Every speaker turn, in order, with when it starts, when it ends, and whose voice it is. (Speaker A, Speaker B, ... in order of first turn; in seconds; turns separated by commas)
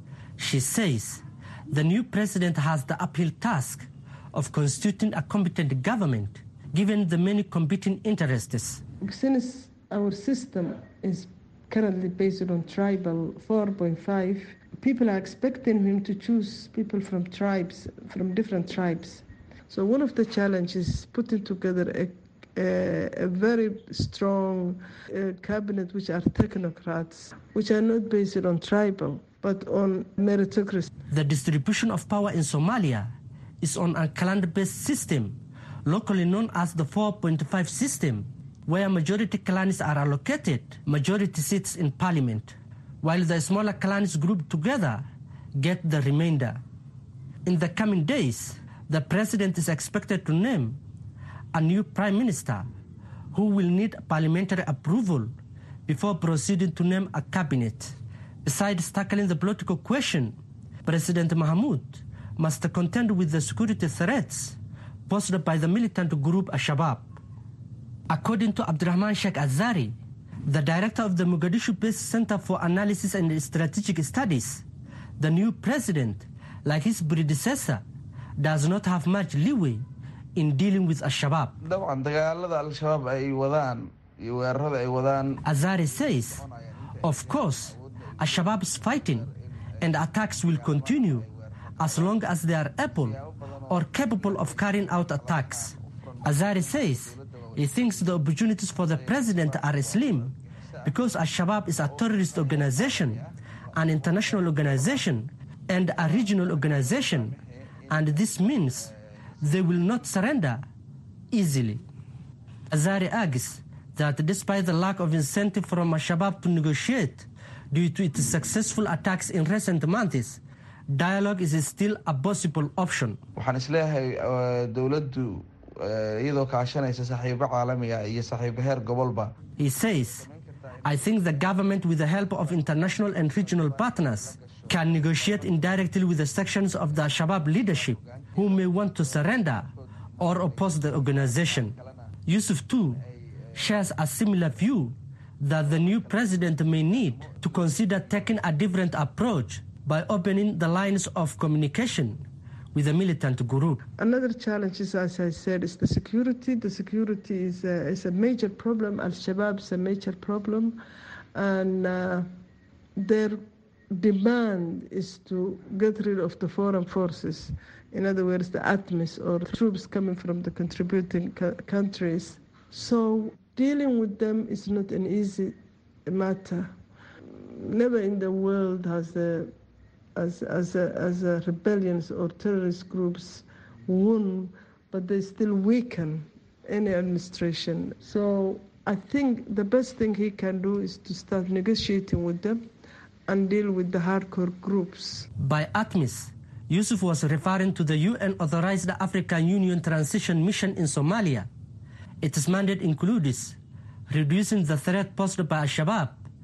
Speaker A: 0.4-8.8, Speaker B: 9.0-30.9, Speaker A: 31.1-46.6, Speaker A: 47.4-50.8, Speaker A: 51.5-52.7, Speaker A: 53.3-55.3, Speaker A: 55.9-57.9, Speaker A: 58.4-67.1, Speaker A: 68.1-69.9, Speaker A: 70.5-74.6, Speaker A: 75.2-77.8, Speaker A: 78.4-79.8, Speaker A: 80.3-81.5, Speaker C: 81.6-89.3, Speaker A: 85.4-86.4, Speaker A: 87.0-89.3, Speaker A: 89.8-93.2, Speaker C: 89.8-92.2, Speaker C: 92.8-105.1, Speaker A: 93.7-100.3, Speaker A: 100.8-103.2, Speaker A: 103.7-107.3, Speaker C: 105.8-108.9, Speaker A: 107.9-108.9, Speaker A: 109.4-110.6, Speaker A: 111.3-111.8, Speaker A: 112.7-120.4, Speaker A: 120.9-123.2, Speaker C: 123.3-136.0, Speaker A: 129.6-130.2, Speaker A: 130.8-139.7, Speaker C: 136.9-141.9, Speaker A: 140.2-141.8, Speaker A: 142.2-143.0, Speaker C: 143.5-143.9, Speaker A: 143.5-153.8, Speaker C: 145.6-148.3, Speaker B: 154.0-160.8, Speaker B: 161.3-162.3, Speaker B: 163.0-176.7, Speaker B: 177.3-179.5, Speaker B: 180.1-192.6, Speaker B: 193.3-195.3, Speaker A: 195.4-201.5, Speaker A: 202.2-203.6, Speaker A: 204.1-206.2